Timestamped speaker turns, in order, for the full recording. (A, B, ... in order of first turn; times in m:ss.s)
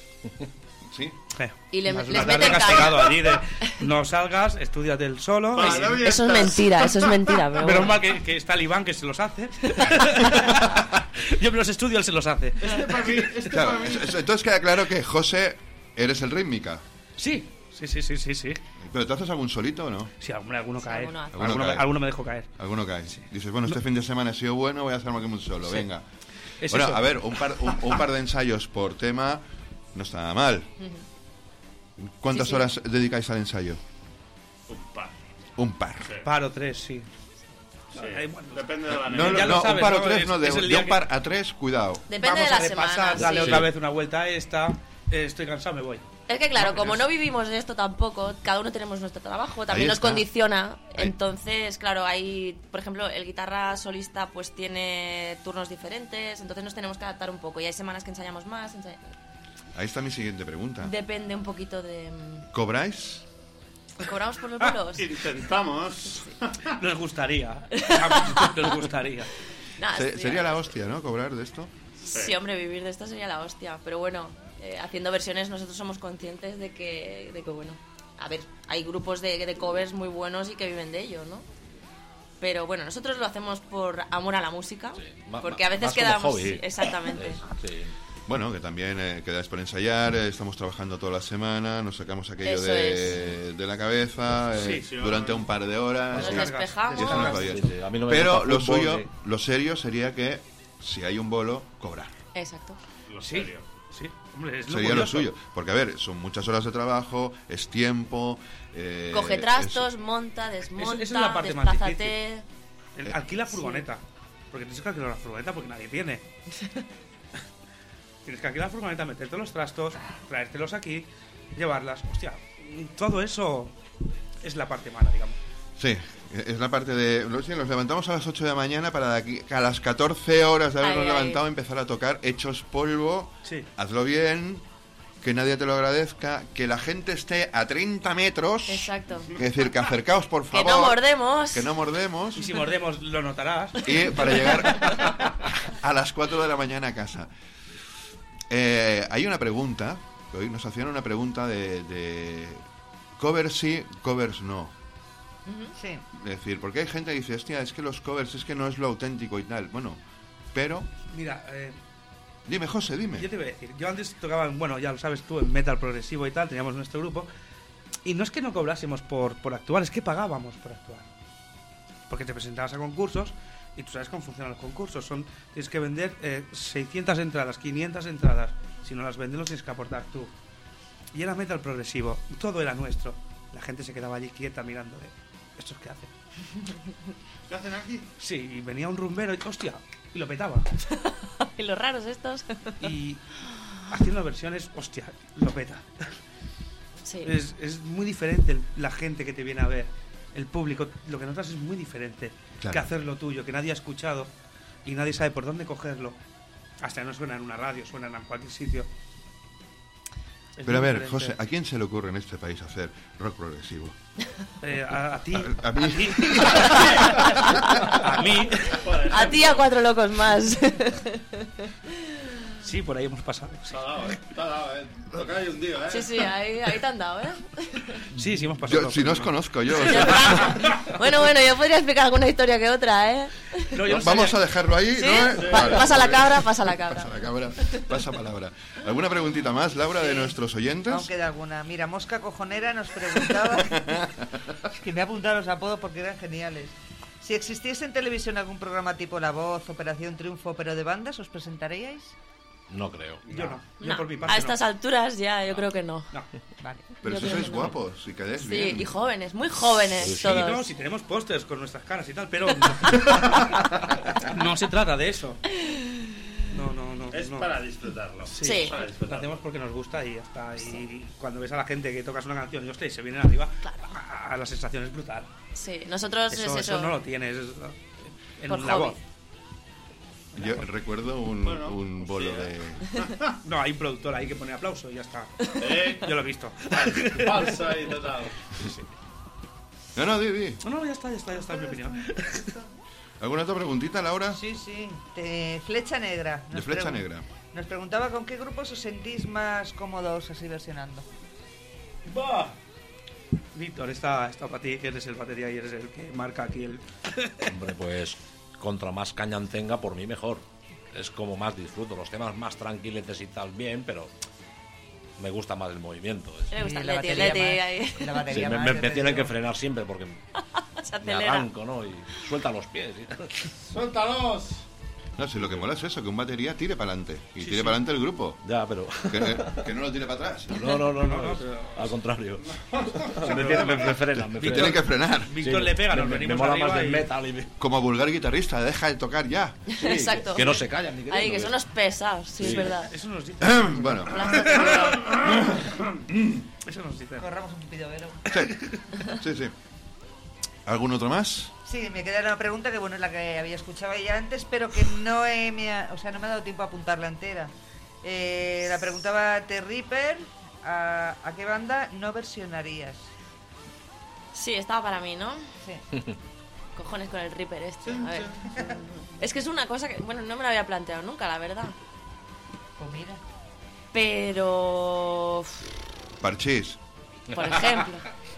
0:00.9-0:01.2 A
0:01.4-0:06.2 B
0:01.7-0:03.4 C
0:05.5-0:07.1 D
0:05.6-0:08.0 C
0:07.6-0:13.5 B
0:12.6-0:14.1 D
0:13.5-0:16.8 A
0:17.2-0:18.6 B
0:18.8-0:20.1 A
0:20.2-0:22.5 B
0:20.8-0:21.4 C
0:21.3-0:21.9 A
0:22.6-0:26.1 A
0:26.6-0:27.2 B
0:26.7-0:29.4 A
0:29.9-0:30.7 A
0:32.0-0:33.8 A
0:32.3-0:32.7 C
0:34.7-0:35.2 D
0:35.6-0:36.2 A
0:36.2-0:37.1 B
0:37.9-0:39.7 D
0:38.0-0:41.0 B
0:39.1-0:42.1 A
0:42.1-0:43.7 C
0:42.2-0:47.0 B
0:46.3-0:59.0 C
0:49.7-0:50.3 A
0:59.7-1:00.9 A
1:00.8-1:02.5 C
1:02.5-1:03.3 A
1:04.0-1:05.2 C
1:05.0-1:06.8 D
1:06.7-1:09.3 B
1:07.8-1:08.8 C
1:09.8-1:10.7 C
1:09.9-1:11.7 A
1:12.1-1:21.5 C
1:12.1-1:12.4 D
1:22.4-1:27.4 C
1:25.0-1:27.9 E
1:28.3-1:42.1 A
1:32.4-1:33.2 C
1:34.6-1:34.9 B
1:34.7-1:35.5 D
1:36.2-1:37.4 C
1:36.2-1:37.7 B
1:37.2-1:39.1 E
1:42.4-1:42.8 C
1:43.1-1:43.7 D
1:43.2-1:45.3 B
1:44.7-1:49.9 A
1:49.1-1:52.4 C
1:50.8-1:52.2 B
1:53.0-1:56.2 B
1:53.5-1:53.9 C
1:58.2-2:03.8 B
2:04.4-2:05.4 B
2:05.8-2:14.7 A
2:10.8-2:11.4 C
2:15.2-2:22.5 A
2:18.7-2:19.3 C
2:20.5-2:21.7 C
2:22.4-2:24.6 B
2:23.8-2:27.3 A
2:28.5-2:32.7 A
2:33.2-2:34.7 A
2:35.5-2:35.7 C
2:35.8-2:36.0 F
2:36.1-2:40.0 A
2:40.5-2:40.9 A
2:41.1-2:41.8 B
2:42.5-2:43.3 A
2:43.2-2:47.3 B
2:48.0-2:51.1 B
2:52.1-3:00.3 B
3:01.1-3:06.1 B
3:07.5-3:08.1 D
3:08.2-3:10.7 B
3:11.0-3:12.9 C
3:12.8-3:13.2 B
3:13.9-3:16.1 B
3:17.0-3:17.4 C
3:17.2-3:24.3 B
3:22.6-3:22.9 A
3:24.8-3:26.2 B
3:26.8-3:28.9 B
3:30.6-3:31.3 B
3:30.6-3:34.0 A
3:34.6-3:38.9 B
3:35.3-3:37.0 A
3:37.7-3:38.0 C
3:38.6-3:39.7 D
3:39.1-3:42.3 C
3:42.6-3:43.8 B
3:43.7-3:46.2 D
3:45.9-3:48.0 C
3:48.2-3:49.3 B
3:48.6-3:50.6 A
3:49.8-3:53.8 C
3:53.7-3:54.4 B
3:53.9-4:01.1 A
3:55.0-3:57.2 C
3:55.3-3:55.8 D
4:00.0-4:00.3 C
4:00.9-4:03.8 F
4:03.4-4:04.6 A
4:04.7-4:12.2 F
4:12.7-4:13.2 E
4:13.3-4:13.6 D
4:13.3-4:14.6 B
4:13.8-4:16.1 C
4:16.6-4:17.0 F
4:17.0-4:18.9 A
4:17.0-4:17.8 C
4:18.4-4:20.7 C
4:20.0-4:20.5 E
4:20.2-4:25.4 B
4:25.6-4:26.4 C
4:26.5-4:27.6 B
4:27.1-4:29.4 D
4:28.3-4:35.3 B
4:28.4-4:28.8 C
4:35.6-4:37.0 C
4:36.3-4:39.0 B
4:38.5-4:39.0 C
4:40.4-4:40.6 B
4:40.4-4:42.9 A
4:41.4-4:43.4 D
4:43.4-4:48.0 B
4:45.6-4:46.1 D
4:46.7-4:48.4 D
4:50.0-4:50.6 A
4:50.6-4:52.6 B
4:53.2-4:54.4 A
4:54.3-5:01.1 F
4:56.5-4:57.3 A
5:02.1-5:02.6 B
5:03.5-5:07.5 B
5:07.5-5:14.1 E
5:15.2-5:16.6 E
5:16.5-5:18.2 C
5:16.5-5:19.3 F
5:18.3-5:20.2 E
5:20.6-5:21.5 C
5:21.0-5:23.5 E
5:23.6-5:24.7 D
5:25.2-5:28.4 A
5:27.4-5:27.8 B
5:28.4-5:29.7 E
5:29.1-5:30.7 A
5:30.5-5:34.8 E
5:30.9-5:32.0 B
5:32.4-5:33.9 D
5:33.2-5:37.1 B
5:34.4-5:35.3 A
5:35.4-5:37.5 E
5:37.6-5:39.6 A
5:39.7-5:42.9 C
5:39.8-5:41.6 E
5:42.4-5:42.7 E
5:42.5-5:45.1 B
5:43.4-5:44.4 A
5:44.1-5:45.1 C
5:44.7-5:45.4 D
5:46.6-5:47.3 B
5:47.2-5:48.2 F
5:48.3-5:49.5 A
5:48.3-5:49.1 B
5:50.7-5:51.5 A
5:51.7-5:57.5 F
5:58.0-6:03.1 F
6:04.3-6:05.5 C
6:06.8-6:08.3 C
6:07.8-6:08.8 D
6:09.2-6:11.8 C
6:12.8-6:13.2 F
6:13.9-6:15.7 C
6:16.2-6:16.8 A
6:17.3-6:18.1 C